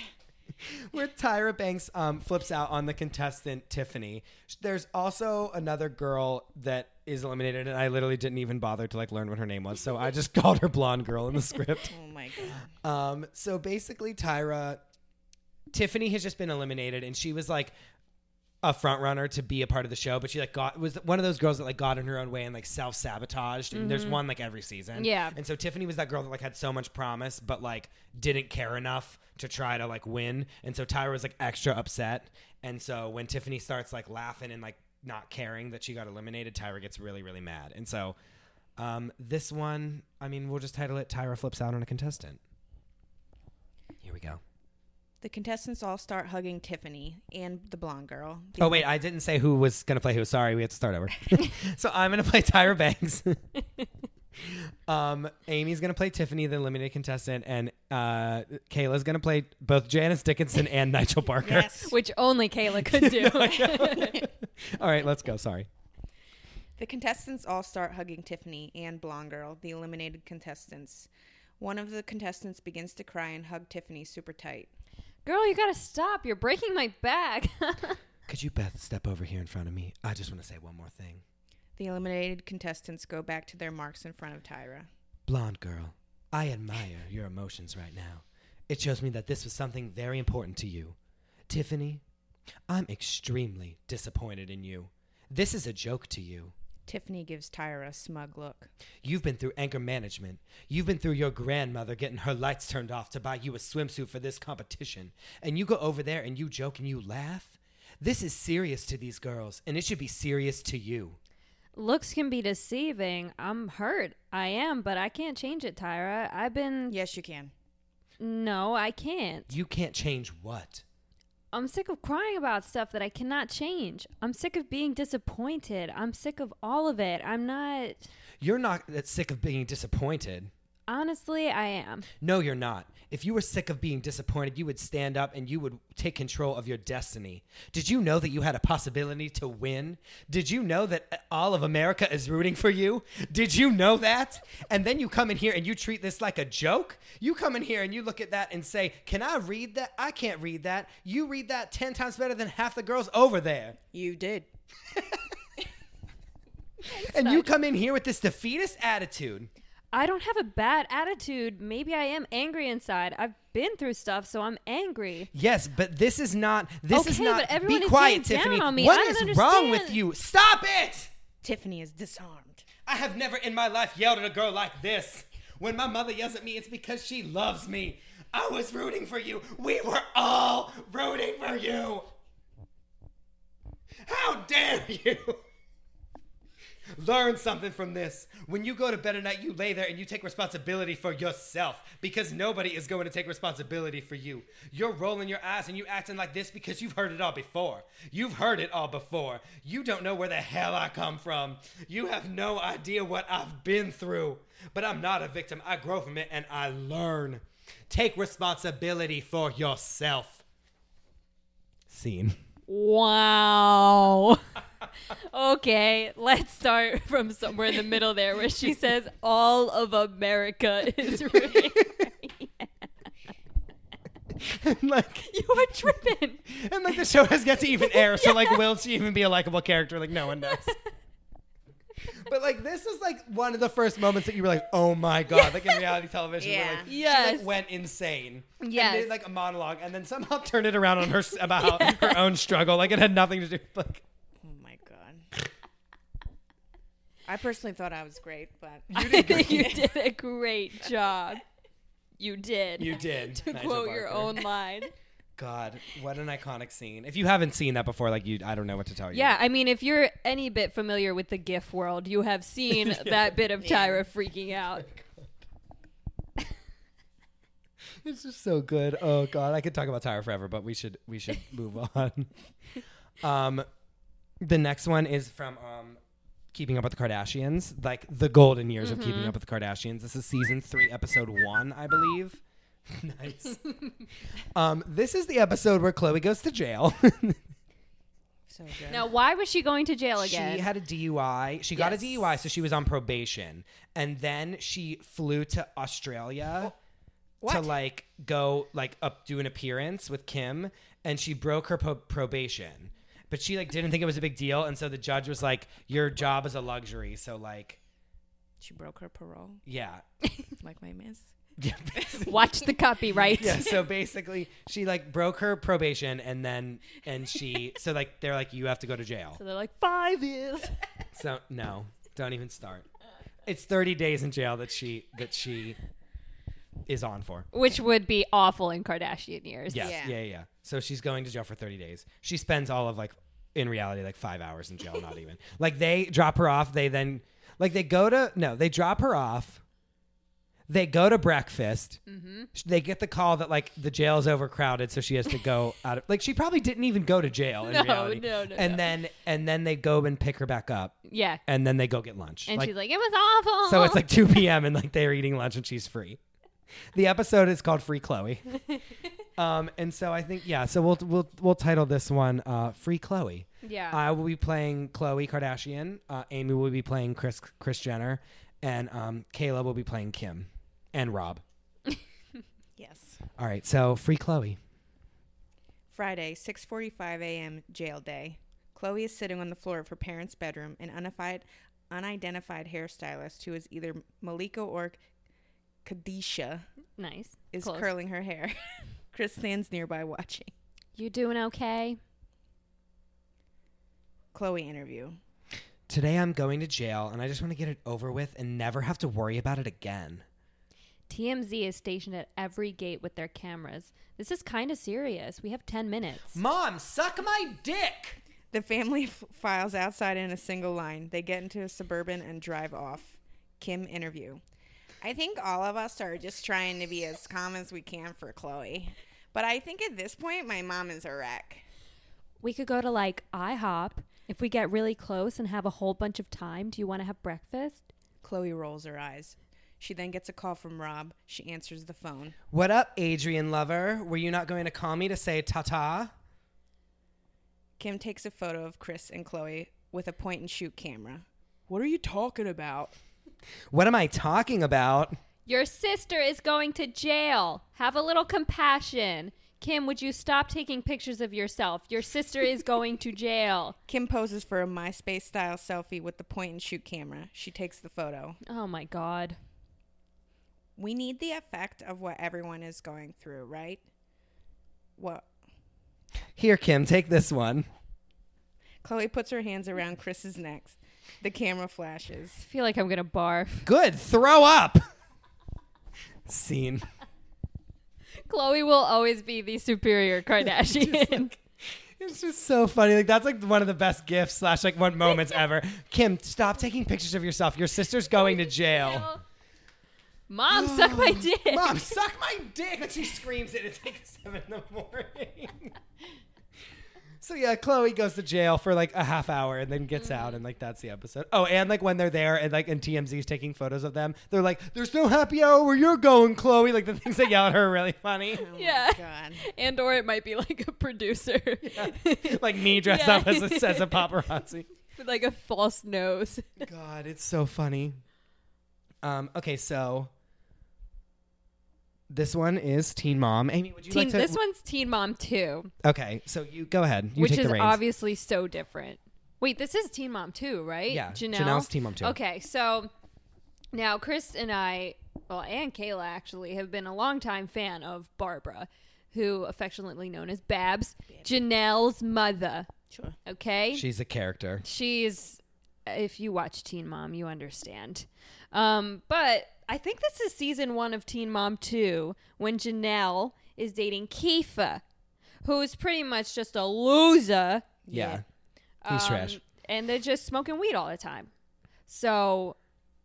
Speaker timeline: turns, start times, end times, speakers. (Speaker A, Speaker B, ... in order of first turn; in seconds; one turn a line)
Speaker A: 0.6-11.9
Speaker B: 11.9-12.7
Speaker A: 12.8-14.8
Speaker A: 15.7-17.7
Speaker A: 18.6-38.1
Speaker C: 23.7-24.2
Speaker C: 24.9-25.4
Speaker A: 38.8-42.4
Speaker A: 44.0-44.4
Speaker B: 45.2-48.9
Speaker A: 48.6-53.4
Speaker A: 54.4-61.9
Speaker B: 61.4-61.9
Speaker C: 61.8-64.2
Speaker A: 62.7-65.7
Speaker B: 66.8-74.7
Speaker C: 75.2-78.0
Speaker A: 78.3-81.2
Speaker B: 81.8-84.9
Speaker A: 85.3-91.0
Speaker A: 91.5-92.0
Speaker A: 92.7-96.5
Speaker B: 96.9-98.7
Speaker A: 99.0-111.2
Speaker C: 111.8-116.9
Speaker B: 116.9-117.5
Speaker C: 118.2-119.5
Speaker A: 119.5-120.8
Speaker C: 121.5-128.1
Speaker A: 128.4-130.5
Speaker C: 130.9-132.1
Speaker A: 132.2-153.8
Speaker B: 153.9-154.5
Speaker C: 156.8-157.5
Speaker A: 157.0-159.5
Speaker C: 159.9-165.3
Speaker A: 165.3-171.1
Speaker C: 166.9-170.0
Speaker B: 171.4-172.7
Speaker A: 172.8-182.1
Speaker A: 184.0-185.4
Speaker A: 186.9-210.4
Speaker A: 211.9-212.4
Speaker C: 212.7-214.4
Speaker C: 215.1-222.7
Speaker A: 221.3-222.0
Speaker A: 224.4-230.8
Speaker C: 225.2-226.4
Speaker C: 227.8-228.6
Speaker C: 230.4-230.8
Speaker A: 232.1-244.0
Speaker C: 235.3-235.8
Speaker B: 236.4-236.9
Speaker C: 236.9-237.6
Speaker C: 238.6-239.1
Speaker C: 241.6-242.2
Speaker B: 244.4-245.3
Speaker B: 247.2-249.9
Speaker A: 248.9-249.8
Speaker C: 248.9-251.4
Speaker C: 252.2-254.9
Speaker A: 252.8-254.5
Speaker A: 255.3-259.4
Speaker C: 259.1-264.9
Speaker A: 262.7-263.4
Speaker B: 263.6-264.0
Speaker A: 264.8-265.3
Speaker A: 268.0-272.3
Speaker A: 273.2-273.7
Speaker A: 274.4-276.0
Speaker A: 276.5-283.6
Speaker C: 278.8-279.3
Speaker A: 284.5-287.4
Speaker B: 288.5-289.1
Speaker C: 288.9-290.7
Speaker A: 290.2-296.7
Speaker B: 291.8-292.1
Speaker B: 297.4-297.7
Speaker A: 297.4-307.8
Speaker B: 308.6-309.6
Speaker A: 309.6-310.0
Speaker B: 310.6-311.3
Speaker A: 311.6-312.4
Speaker C: 312.2-313.8
Speaker A: 313.2-319.4
Speaker C: 319.4-320.8
Speaker A: 321.1-322.9
Speaker A: 323.4-325.8
Speaker A: 326.9-327.5
Speaker C: 327.5-329.9
Speaker A: 329.7-339.6
Speaker B: 329.7-330.1
Speaker A: 340.7-342.0
Speaker C: 342.1-342.5
Speaker A: 342.5-352.7
Speaker C: 347.6-348.9
Speaker C: 351.1-351.4
Speaker C: 352.5-354.1
Speaker A: 353.6-356.2
Speaker A: 356.9-358.6
Speaker A: 359.4-371.4
Speaker C: 363.6-364.0
Speaker B: 372.8-373.2
Speaker A: 373.4-374.6
Speaker B: 375.9-385.0
Speaker B: 385.8-386.7
Speaker C: 387.0-387.9
Speaker B: 387.5-388.6
Speaker B: 389.1-390.5
Speaker C: 390.9-392.0
Speaker B: 394.3-395.2
Speaker A: 395.9-400.2
Speaker C: 401.1-406.4
Speaker A: 406.3-408.2
Speaker B: 408.5-414.4
Speaker B: 415.0-421.6
Speaker C: 422.4-427.9
Speaker B: 428.2-432.4
Speaker A: 432.5-436.1
Speaker B: 437.8-442.9
Speaker A: 443.7-445.2
Speaker C: 445.4-453.8
Speaker B: 453.9-458.4
Speaker C: 458.4-459.4
Speaker B: 460.8-463.8
Speaker B: 465.0-465.2
Speaker A: 466.4-467.7
Speaker B: 468.8-472.4
Speaker C: 472.4-473.7
Speaker A: 473.6-474.8
Speaker A: 476.2-476.8
Speaker C: 478.3-481.3
Speaker A: 480.4-489.1
Speaker C: 488.1-489.2
Speaker C: 490.3-491.9
Speaker A: 490.5-495.7
Speaker A: 497.2-508.5
Speaker C: 500.0-500.4
Speaker B: 508.3-509.4
Speaker C: 508.5-514.1
Speaker A: 511.6-514.7
Speaker C: 514.9-516.6
Speaker A: 516.6-518.0
Speaker A: 519.0-520.1
Speaker A: 522.1-524.4
Speaker C: 523.9-525.7
Speaker A: 525.8-527.8
Speaker C: 527.1-532.9
Speaker A: 530.9-532.2
Speaker C: 533.7-542.7
Speaker B: 542.9-543.1
Speaker C: 543.2-543.8
Speaker A: 543.7-544.6
Speaker C: 544.6-554.8
Speaker C: 555.4-557.7
Speaker B: 557.9-558.2
Speaker A: 557.9-558.2
Speaker C: 558.8-561.3
Speaker A: 558.9-559.4
Speaker C: 561.9-562.6